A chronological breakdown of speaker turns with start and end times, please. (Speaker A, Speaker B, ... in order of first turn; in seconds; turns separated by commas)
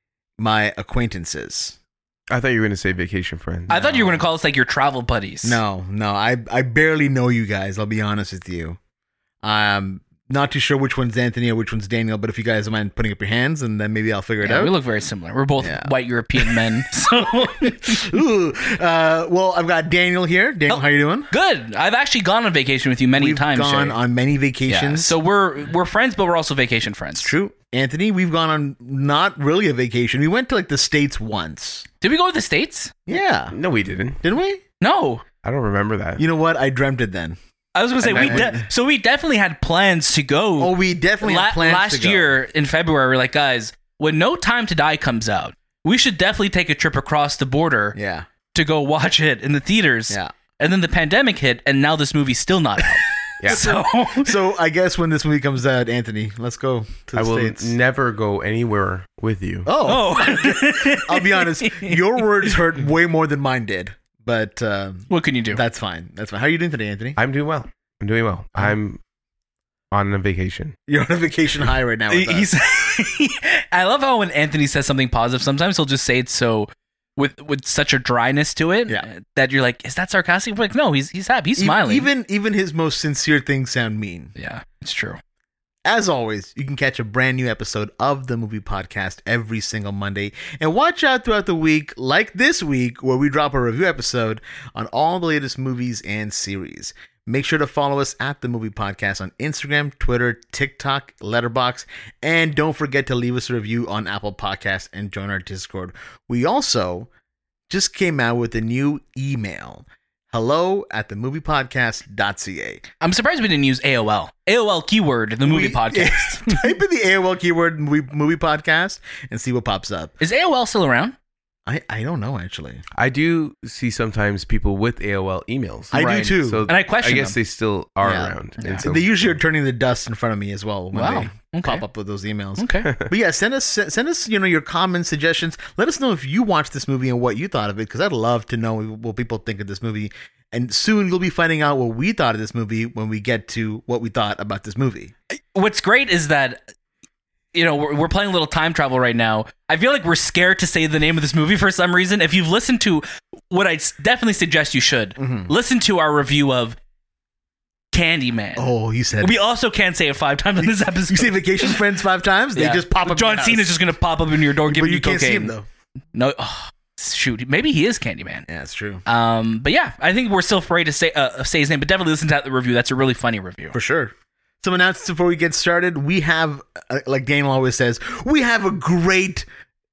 Speaker A: 0.4-1.8, Speaker B: 2.3-3.9, Speaker C: 3.7-5.6, Speaker A: 3.7-4.2, Speaker A: 5.4-8.8, Speaker A: 9.4-14.7, Speaker C: 14.4-18.0, Speaker A: 15.6-21.3, Speaker C: 20.7-24.0, Speaker A: 23.2-25.2, Speaker C: 24.7-27.3, Speaker A: 27.2-31.9, Speaker C: 32.0-32.9, Speaker A: 33.1-33.6, Speaker B: 33.5-34.2, Speaker A: 34.2-34.6, Speaker C: 34.8-35.2, Speaker B: 35.4-36.2, Speaker A: 36.2-37.4, Speaker C: 37.8-48.0, Speaker A: 38.0-38.7, Speaker B: 38.1-38.5, Speaker A: 40.6-42.4, Speaker A: 48.0-48.3, Speaker C: 48.5-54.4, Speaker B: 53.4-53.7, Speaker A: 53.5-57.7, Speaker B: 57.1-59.7, Speaker A: 59.6-67.2, Speaker C: 59.8-62.5, Speaker C: 65.1-65.6, Speaker B: 67.2-69.0, Speaker B: 69.9-70.8, Speaker A: 70.9-72.5, Speaker C: 72.1-82.1, Speaker A: 81.6-84.3, Speaker C: 84.4-85.2, Speaker A: 85.8-107.1, Speaker A: 107.7-112.8, Speaker C: 113.0-116.7, Speaker A: 115.5-120.2, Speaker C: 120.2-121.2, Speaker A: 121.7-122.8, Speaker B: 123.0-129.4, Speaker A: 125.9-126.7, Speaker C: 125.9-127.4, Speaker A: 128.0-145.1, Speaker C: 128.6-128.9, Speaker C: 130.9-131.8, Speaker C: 132.6-132.9, Speaker C: 145.3-146.6, Speaker C: 147.5-156.8, Speaker A: 155.2-155.5, Speaker C: 157.9-158.7, Speaker A: 158.6-159.4, Speaker C: 159.2-161.8, Speaker A: 160.6-163.8, Speaker C: 162.6-165.5, Speaker A: 164.6-165.7, Speaker C: 166.1-168.5, Speaker A: 168.5-169.0, Speaker C: 169.1-173.7, Speaker A: 173.7-179.5